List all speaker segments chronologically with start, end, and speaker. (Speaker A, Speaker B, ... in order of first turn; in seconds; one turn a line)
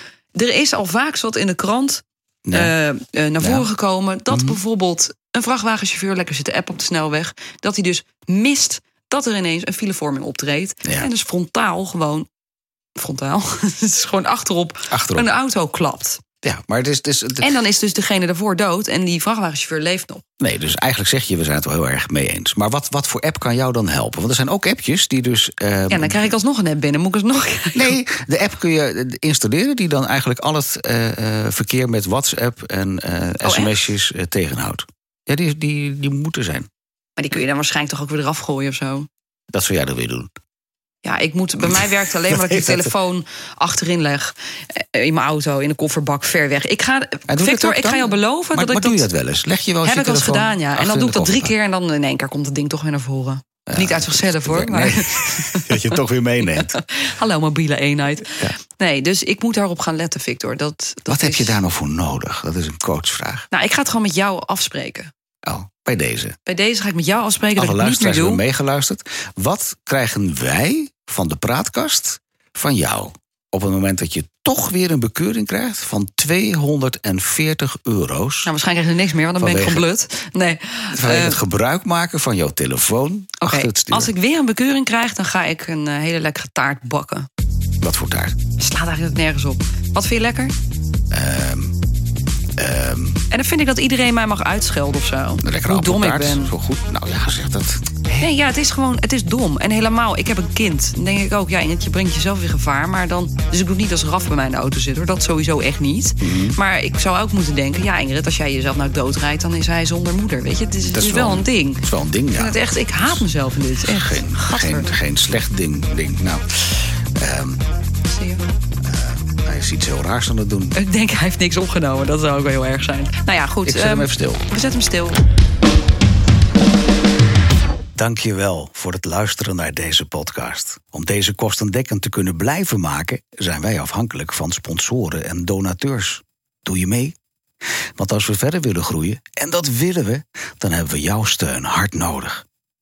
Speaker A: 0.3-12.3
Speaker B: 2.5-2.7
Speaker B: 3.4-3.6
Speaker B: 4.3-4.6
Speaker A: 12.9-16.2
Speaker B: 14.9-15.3
Speaker B: 16.4-17.5
Speaker A: 17.4-20.2
Speaker B: 20.4-26.2
Speaker A: 25.9-27.9
Speaker B: 27.7-36.7
Speaker A: 33.4-33.8
Speaker A: 37.2-39.1
Speaker B: 39.5-40.3
Speaker A: 41.0-49.1
Speaker B: 41.7-42.9
Speaker B: 47.3-51.5
Speaker A: 49.8-61.6
Speaker B: 53.7-56.8
Speaker B: 61.1-63.5
Speaker A: 63.5-65.1
Speaker B: 65.4-66.3
Speaker A: 66.5-68.4
Speaker B: 67.5-78.5
Speaker A: 78.5-81.4
Speaker B: 79.4-79.8
Speaker B: 80.9-84.1
Speaker A: 83.4-87.3
Speaker B: 87.8-88.3
Speaker A: 88.6-90.5
Speaker B: 91.1-91.7
Speaker B: 92.6-93.2
Speaker A: 93.3-96.5
Speaker B: 95.4-98.3
Speaker A: 98.2-114.9
Speaker B: 106.2-106.6
Speaker B: 110.9-113.2
Speaker B: 113.8-116.4
Speaker B: 117.1-117.6
Speaker A: 118.0-118.5
Speaker B: 118.8-120.8
Speaker A: 120.7-125.2
Speaker B: 123.6-124.5
Speaker B: 127.9-137.1
Speaker B: 138.0-142.4